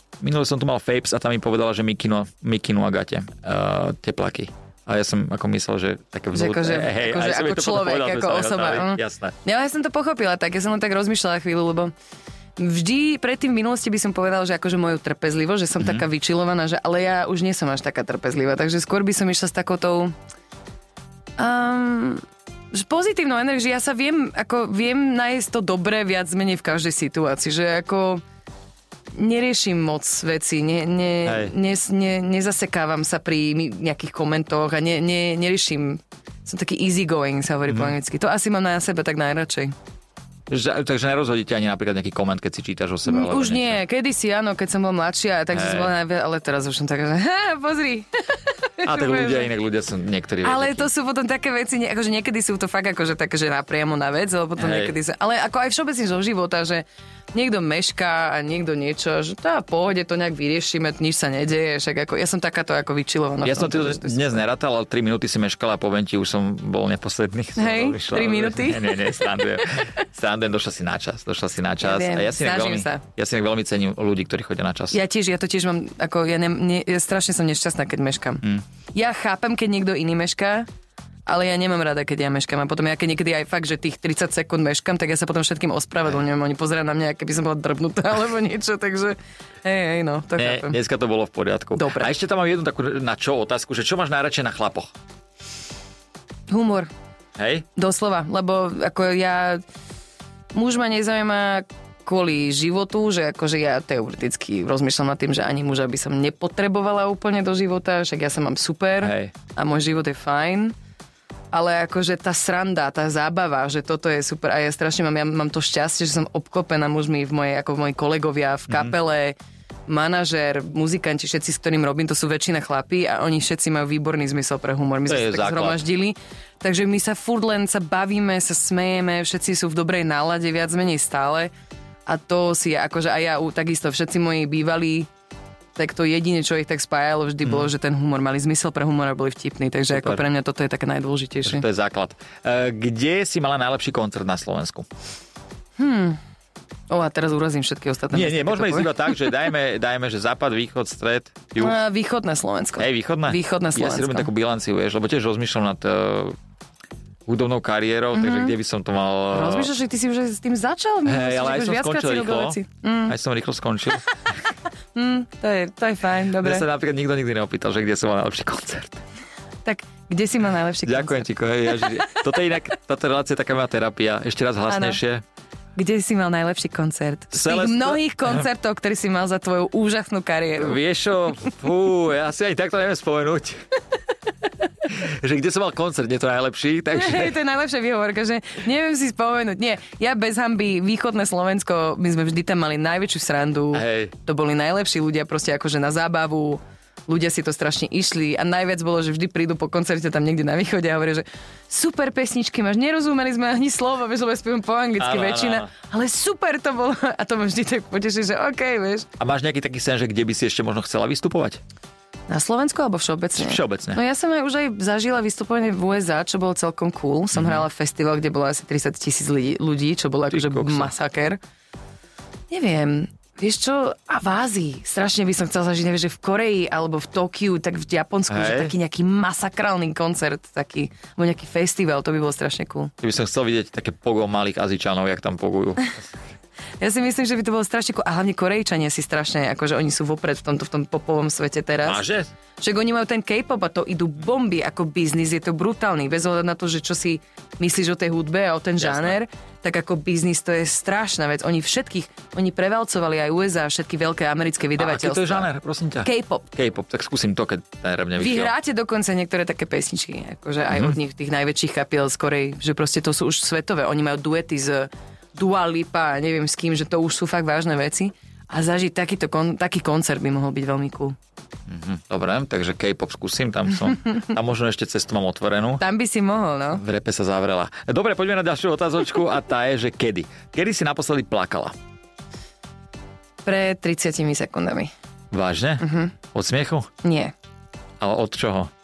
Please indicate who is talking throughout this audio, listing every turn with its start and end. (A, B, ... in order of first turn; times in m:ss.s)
0:00.2-0:09.3 A
0:06.3-0:11.9 B
0:12.6-0:20.1 B
0:21.4-0:28.2 B
0:29.1-0:39.7 B
0:31.2-0:31.5 A
0:37.7-0:37.9 A
0:40.5-0:43.8 A
0:43.0-0:49.5 B
0:45.5-0:45.9 A
0:48.8-0:50.9 A
0:50.4-1:04.4 B
0:54.6-0:54.9 A
1:03.4-1:15.0 A
1:07.6-1:09.3 B
1:11.8-1:13.0 B
1:14.9-1:20.7 B
1:21.2-1:30.8 B
1:30.4-1:34.9 A
1:31.8-1:32.1 B
1:36.5-1:36.9 B
1:37.4-1:37.6 A
1:37.8-1:39.6 B
1:40.5-1:50.7 B
1:49.0-1:49.3 A
1:51.5-1:59.4 B
1:59.9-2:11.5 B
2:05.1-2:05.8 A
2:12.1-2:15.1 B
2:15.8-2:21.6 B
2:17.4-2:17.7 A
2:19.9-2:20.2 A
2:21.4-2:24.8 A
2:25.8-2:26.2 B
2:26.9-2:29.2 B
2:28.1-2:31.8 A
2:31.6-2:34.3 B
2:32.8-2:36.4 A
2:37.2-2:39.7 A
2:38.1-2:38.5 B
2:39.3-2:43.2 B
2:41.0-2:44.3 A
2:44.9-2:46.6 B
2:46.4-2:49.0 A
2:49.6-2:52.4 B
2:50.8-2:55.2 A
2:54.7-2:55.0 B
2:55.8-3:00.8 B
2:57.3-2:58.4 A
3:00.6-3:03.6 A
3:04.8-3:07.3 A
3:06.9-3:29.1 B
3:13.7-3:14.1 A
3:25.0-3:25.7 A
3:29.2-3:31.6 A
3:32.3-3:41.4 B
3:33.4-3:34.0 A
3:37.3-3:37.6 A
3:40.3-3:40.9 A
3:42.5-3:52.9 B
3:48.3-3:48.7 A
3:53.0-3:56.1 A
3:56.8-4:02.0 B
4:01.8-4:02.3 A
4:02.6-4:15.5 B
4:08.8-4:09.1 A
4:14.8-4:18.5 A
4:16.0-4:16.4 B
4:18.2-4:31.2 B
4:20.7-4:21.0 A
4:31.7-4:35.8 A
4:35.8-4:36.8 B
4:36.7-4:41.7 A
4:43.4-4:44.9 B
4:45.3-4:46.9 A
4:45.8-4:46.1 B
4:47.0-4:47.3 B
4:48.0-4:48.7 A